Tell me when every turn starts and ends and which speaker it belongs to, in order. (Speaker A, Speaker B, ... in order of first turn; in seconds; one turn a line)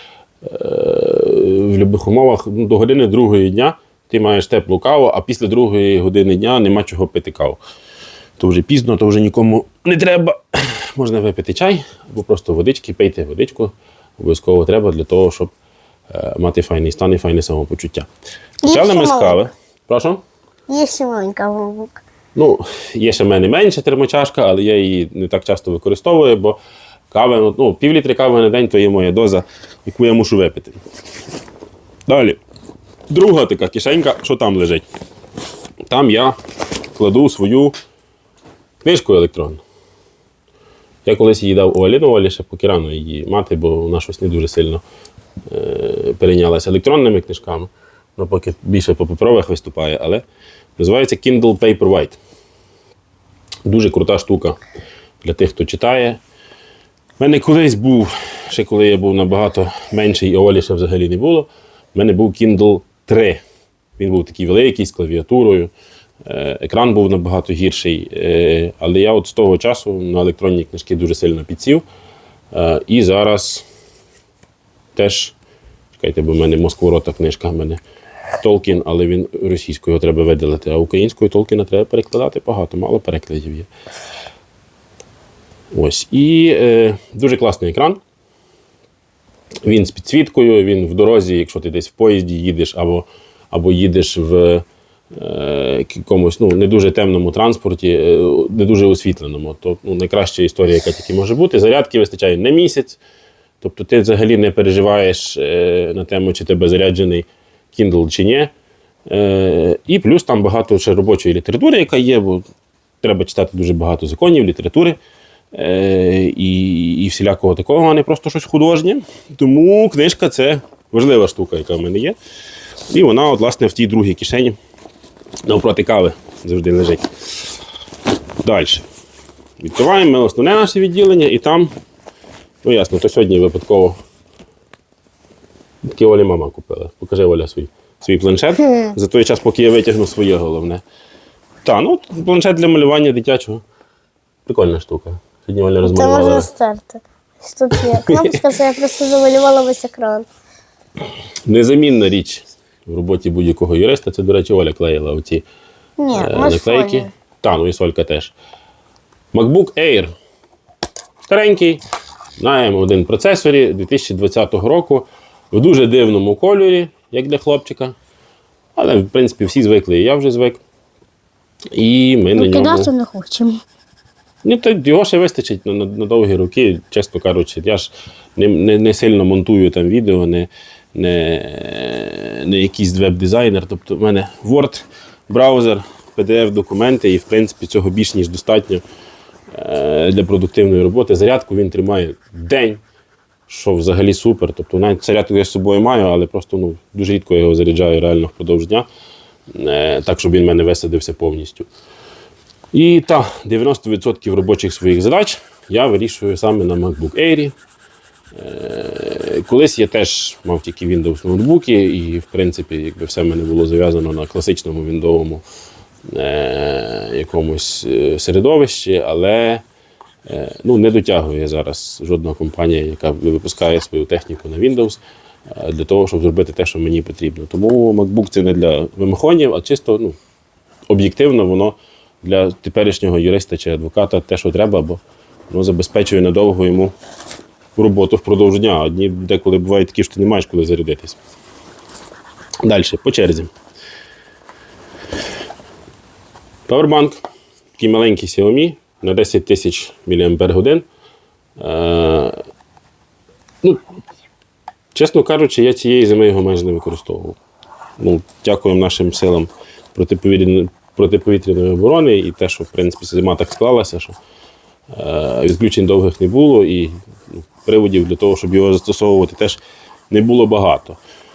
Speaker A: 0.4-7.6
Speaker A: 8.4-15.5
Speaker A: 16.1-18.1
Speaker B: 18.6-19.4
Speaker A: 18.6-20.2
Speaker B: 20.7-21.9
Speaker A: 22.4-26.6
Speaker A: 27.1-30.8
Speaker A: 32.1-32.4
Speaker A: 33.1-34.9
Speaker A: 35.9-36.4
Speaker A: 37.0-37.8
Speaker A: 38.8-39.6
Speaker A: 41.0-44.8
Speaker A: 45.5-50.2
Speaker A: 50.8-52.2
Speaker A: 53.6-54.6
Speaker A: 55.2-56.2
Speaker A: 57.2-63.4
Speaker A: 64.0-65.7
Speaker A: 66.2-71.8
Speaker A: 72.5-73.7
Speaker A: 75.0-75.3
Speaker A: 76.0-77.8
Speaker A: 78.4-83.7
Speaker A: 85.7-88.0
Speaker A: 89.6-103.0
Speaker A: 103.6-108.5
Speaker A: 109.1-112.5
Speaker A: 113.0-115.0
Speaker A: 115.5-122.2
Speaker A: 122.9-124.6
Speaker A: 125.4-127.1
Speaker A: 128.4-128.9
Speaker A: 129.6-131.7
Speaker A: 132.6-134.0
Speaker A: 135.8-140.8
Speaker A: 141.6-143.6
Speaker A: 144.5-146.5
Speaker B: 145.8-150.3
Speaker A: 147.7-148.4
Speaker A: 151.5-155.4
Speaker B: 156.0-157.1
Speaker A: 156.1-158.3
Speaker A: 159.3-160.1
Speaker A: 161.3-161.8
Speaker A: 162.4-168.0
Speaker A: 168.8-170.6
Speaker A: 171.7-172.9
Speaker B: 172.4-173.6
Speaker A: 174.4-188.8
Speaker A: 189.5-192.8
Speaker A: 193.5-198.9
Speaker A: 199.5-201.7
Speaker A: 202.7-207.6
Speaker A: 208.3-215.4
Speaker A: 216.1-219.6
Speaker A: 220.3-230.2
Speaker A: 230.9-236.9
Speaker A: 237.8-241.2
Speaker A: 242.6-243.5
Speaker A: 246.7-247.2
Speaker A: 247.8-250.9
Speaker A: 251.6-252.4
Speaker A: 254.9-257.4
Speaker A: 258.0-264.2
Speaker A: 264.9-271.0